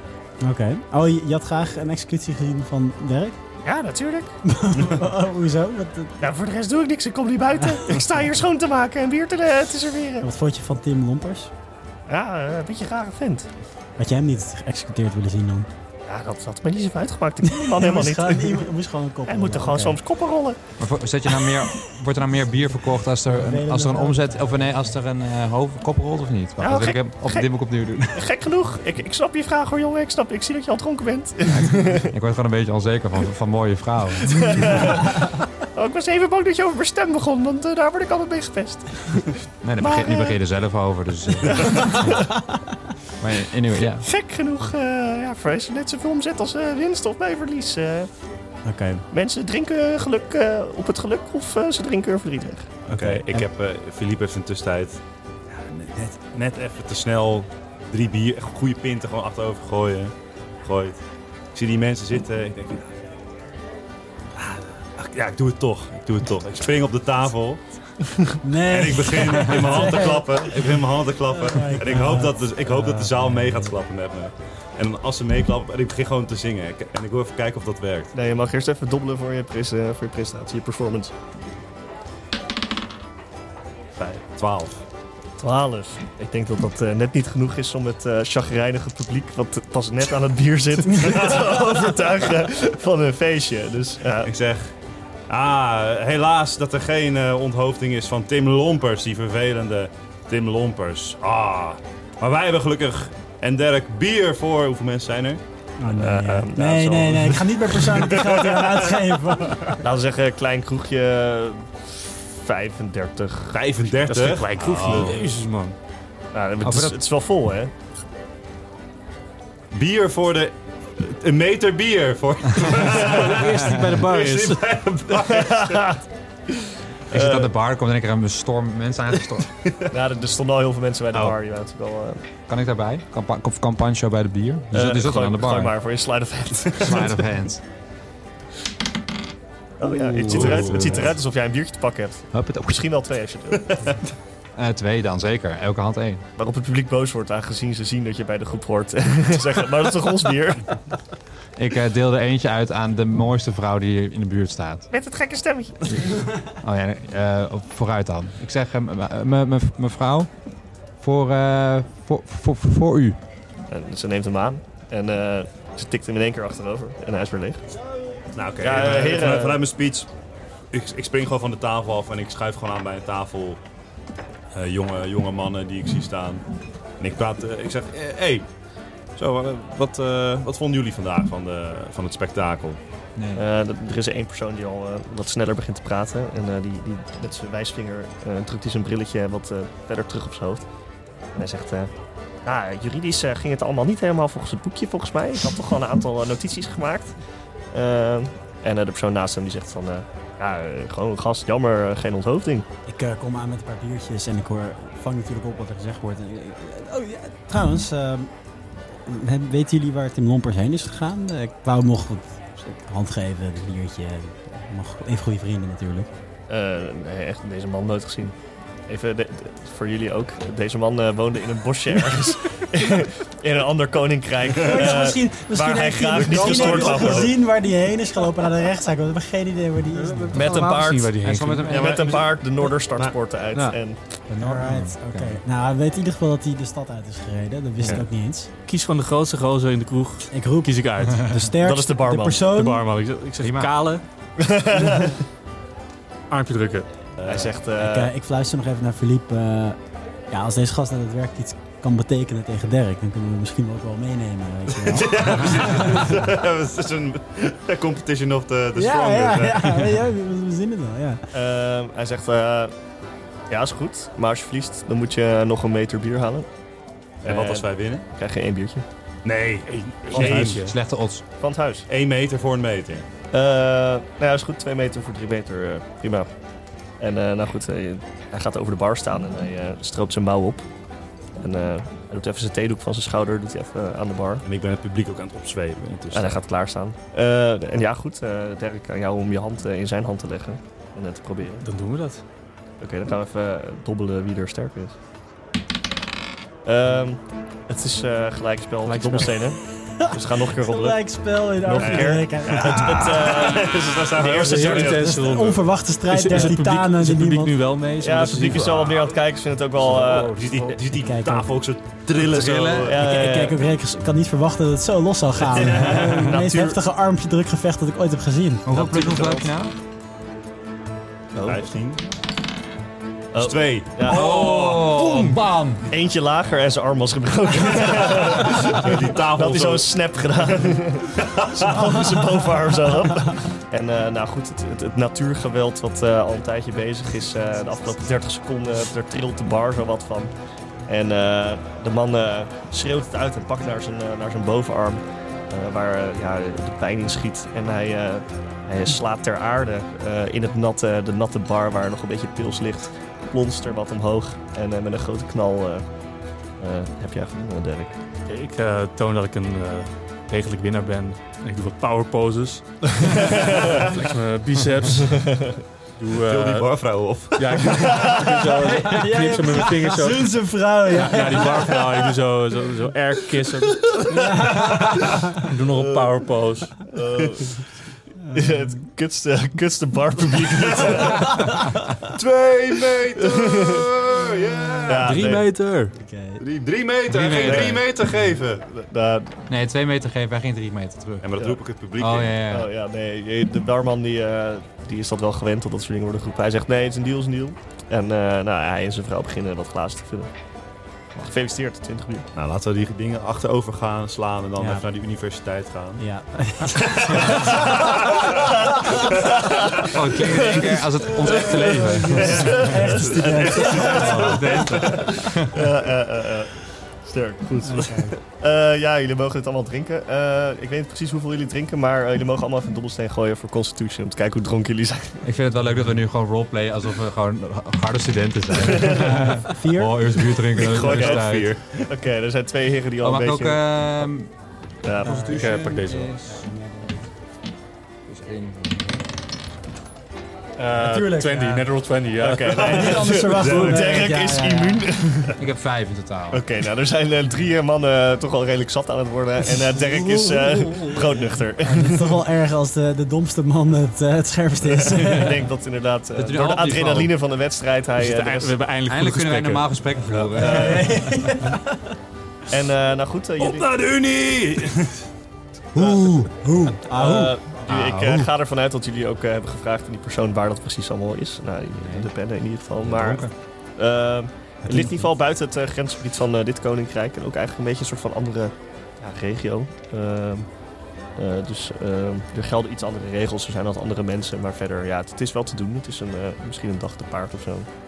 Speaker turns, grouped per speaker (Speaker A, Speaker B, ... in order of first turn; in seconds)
Speaker A: 0.4-3.4, 4.4-6.2, 10.2-11.5, 14.0-15.7, 17.4-20.0, 23.3-24.7, 48.6-49.0, 53.0-53.4, 68.4-70.5, 71.4-73.7, 105.8-109.8, 202.8-208.3, 209.0-216.1, 224.6-230.4, 234.3-238.5, 240.3-242.8, 247.8-249.8, 250.3-256.3, 258.7-261.3, 299.9-303.5, 304.8-307.6, 310.9-311.5, 312.9-318.7, 368.6-371.9, 374.1-375.3, 385.9-386.4, 404.6-404.8, 406.0-407.7, 412.2-415.1, 417.6-418.1, 429.1-430.2, 440.8-441.6, 442.6-444.9, 451.6-455.4, 460.4-461.9, 466.2-467.3
Speaker B: 3.6-4.3, 6.2-10.3, 12.1-13.5, 16.1-18.7, 19.3-20.6, 26.6-27.5, 28.1-32.1, 34.3-40.4, 41.5-42.1, 43.8-48.1, 49.1-52.8, 78.1-81.2, 85.4-94.3, 106.0-107.4, 109.8-113.6, 116.3-117.7, 125.1-126.0, 127.1-127.5, 129.9-132.2, 134.7-137.2, 139.8-144.0, 146.4-150.8, 154.9-156.2, 163.7-167.7, 168.6-169.6, 183.3-190.7, 191.3-191.9, 192.4-197.1, 197.7-202.7, 216.5-218.3, 218.9-227.3, 230.3-234.2, 241.6-242.4, 244.4-245.2, 247.2-248.1, 261.3-262.7, 263.5-266.5, 267.2-268.8, 270.1-270.5, 271.4-271.9, 273.3-276.3, 277.0-280.7, 281.4-284.4, 286.1-291.6, 292.8-294.9, 296.6-301.0, 301.6-305.0, 308.0-310.4, 312.8-313.6, 315.5-316.8, 318.7-319.5, 321.3-321.6, 323.3-324.4, 325.9-340.3, 340.9-355.9, 356.6-358.0, 363.1-363.9, 365.1-365.6, 367.9-368.3, 376.9-377.6, 378.3-381.9, 383.2-383.9, 384.9-385.5, 387.3-387.9, 388.7-389.4, 392.5-400.3, 401.2-402.3, 408.4-425.2, 428.7-429.1, 430.7-431.3, 431.8-434.0, 434.8-435.4, 442.2-445.4, 446.3-452.2, 454.6-458.6, 460.4-460.9, 462.5-463.7, 465.8-466.2, 466.9-480.5, 481.1-487.7
Speaker C: 20.8-28.2, 31.5-34.9, 39.6-42.2, 43.2-44.0, 116.6-117.0, 127.1-129.5, 132.5-135.8, 136.8-137.6, 140.0-141.1, 142.3-142.8, 144.6-146.2, 151.6-154.9, 155.9-160.3, 161.0-163.2, 183.2-183.4, 231.2-232.1, 234.3-235.4, 243.4-243.7, 270.1-271.2, 312.2-312.9, 318.6-319.7, 324.1-325.8, 387.1-387.8, 389.5-391.3, 392.0-392.7, 409.8-412.8, 414.2-415.5, 425.2-431.5, 433.0-434.3, 434.9-437.0, 438.1-439.0, 445.4-446.4, 456.1-457.1, 458.9-461.2, 467.6-468.3, 471.8-472.1, 472.8-473.3
Speaker D: 52.9-55.0, 55.5-60.1, 60.6-61.0, 61.5-62.9, 64.4-67.6, 68.7-78.1, 84.0-84.7, 94.2-94.7, 95.3-105.4, 113.5-115.2, 119.7-125.8, 140.2-141.1, 168.3-170.1, 170.7-173.6, 174.5-176.4, 177.0-178.4, 179.2-182.8, 226.2-227.3, 231.6-232.3, 247.2-247.5, 254.8-260.0, 267.2-268.0, 269.2-270.6, 271.9-273.1, 284.4-286.4, 301.8-305.2, 308.5-308.9, 309.9-313.0, 321.4-322.0, 323.4-325.0, 328.1-329.9, 331.2-331.9, 366.3-368.0, 380.7-381.3, 382.1-385.4, 386.4-388.6, 391.2-392.4, 402.3-406.0, 406.7-408.4, 412.1-415.0, 430.5-431.9, 443.4-443.9, 463.4-465.1
Speaker E: 114.1-115.7, 123.0-124.6, 230.1-231.9, 238.7-241.3, 242.4-244.0, 246.3-246.9, 269.7-270.7, 291.6-292.2, 298.8-299.4, 304.3-308.9, 309.8-310.8, 358.2-365.3, 366.0-374.4, 375.3-376.8, 385.0-385.9, 414.3-414.7, 435.2-436.2, 440.6-443.1, 457.9-460.2